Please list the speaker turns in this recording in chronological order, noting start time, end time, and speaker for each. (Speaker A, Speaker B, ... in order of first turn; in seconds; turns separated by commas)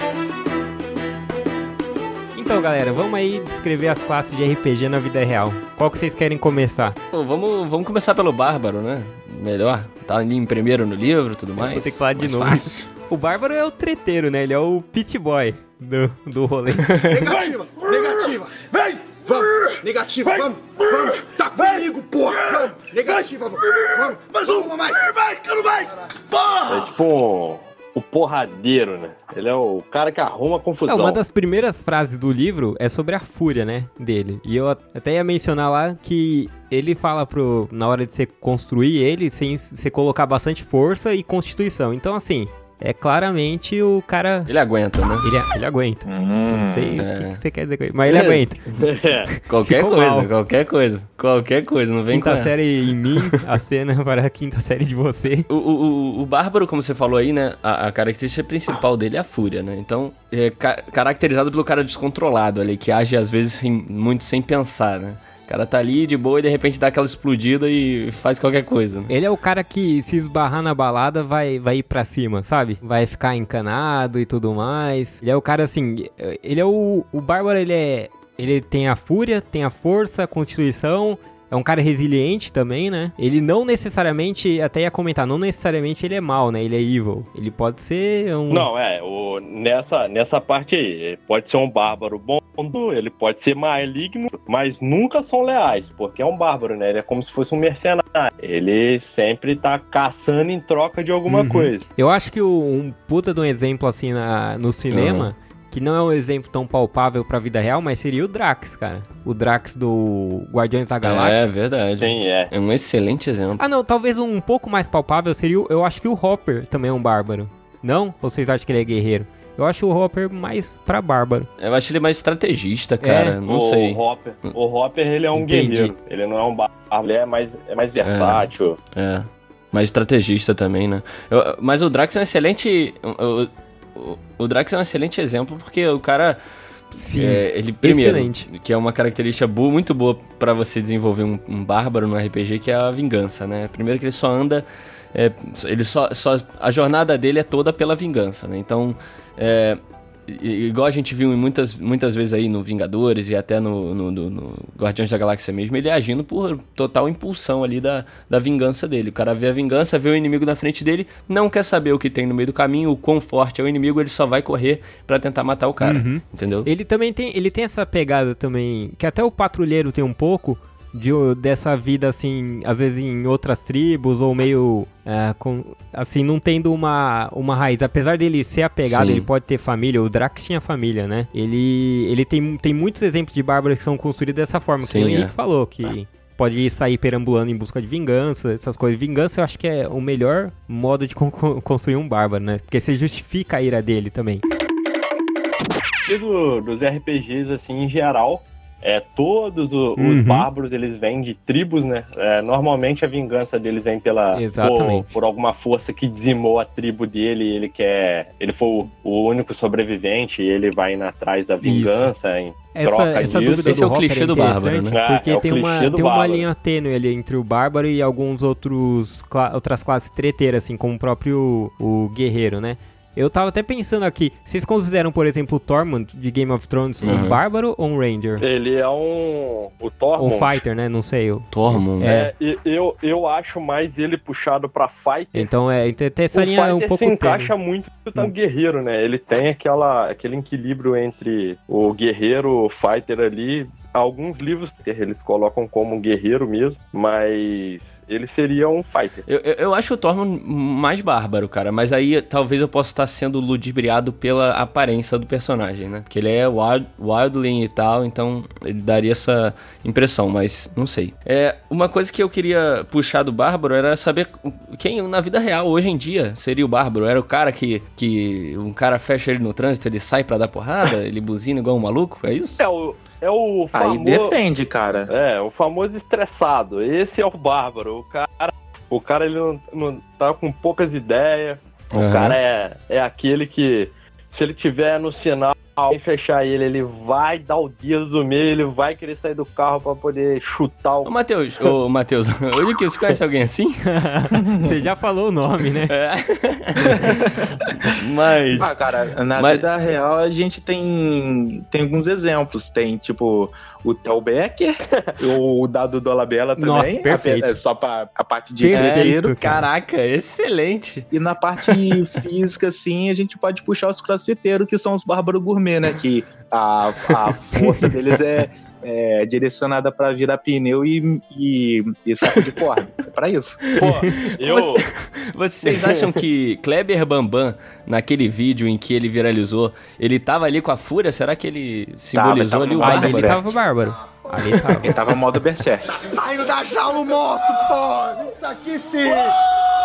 Speaker A: 2.3-7.0, Speaker B: 7.1-12.9, Speaker A: 11.6-16.9, Speaker B: 16.9-17.2, Speaker C: 17.1-26.9, Speaker D: 26.7-31.2, Speaker A: 30.9-44.5, Speaker B: 44.5-45.3, Speaker A: 45.2-48.6, Speaker E: 46.1-47.0, Speaker B: 47.0-47.4, Speaker B: 48.1-48.4, Speaker D: 48.8-49.3, Speaker A: 49.3-50.3, Speaker B: 49.5-53.2, Speaker A: 52.1-55.5, Speaker B: 55.5-69.1, Speaker A: 69.1-88.7, Speaker D: 88.5-101.8, Speaker A: 101.3-111.4, Speaker B: 104.9-105.3, Speaker B: 111.0-113.6, Speaker D: 112.0-112.5, Speaker A: 113.6-121.5, Speaker B: 121.6-124.5, Speaker A: 123.0-123.4, Speaker D: 123.5-128.8, Speaker A: 125.3-125.9, Speaker B: 128.0-136.4, Speaker A: 136.9-138.5, Speaker B: 137.1-166.7, Speaker A: 165.8-194.4, Speaker B: 178.8-179.2, Speaker B: 184.8-185.3, Speaker D: 196.1-213.8, Speaker A: 200.0-200.5, Speaker A: 204.3-205.1, Speaker A: 211.6-212.1, Speaker A: 212.7-228.4, Speaker B: 213.2-215.0, Speaker D: 214.9-216.5, Speaker B: 227.0-227.4, Speaker D: 228.4-230.6, Speaker A: 230.2-232.3, Speaker B: 231.5-232.2, Speaker D: 232.0-235.5, Speaker A: 235.3-237.5, Speaker D: 236.3-249.2, Speaker B: 249.3-272.7, Speaker D: 272.6-274.4, Speaker E: 273.7-275.1, Speaker D: 275.1-291.1, Speaker B: 281.9-282.4, Speaker B: 291.1-293.8, Speaker A: 293.9-295.9, Speaker B: 295.9-297.3, Speaker B: 297.9-298.7, Speaker E: 298.6-309.4, Speaker B: 299.4-299.6, Speaker A: 306.6-307.6, Speaker A: 308.6-309.6, Speaker B: 308.7-311.1, Speaker E: 311.1-323.8, Speaker D: 323.8-324.9, Speaker B: 323.8-333.4, Speaker D: 325.7-326.2, Speaker E: 332.1-333.5, Speaker A: 332.8-334.9, Speaker E: 334.8-335.9, Speaker C: 336.0-339.4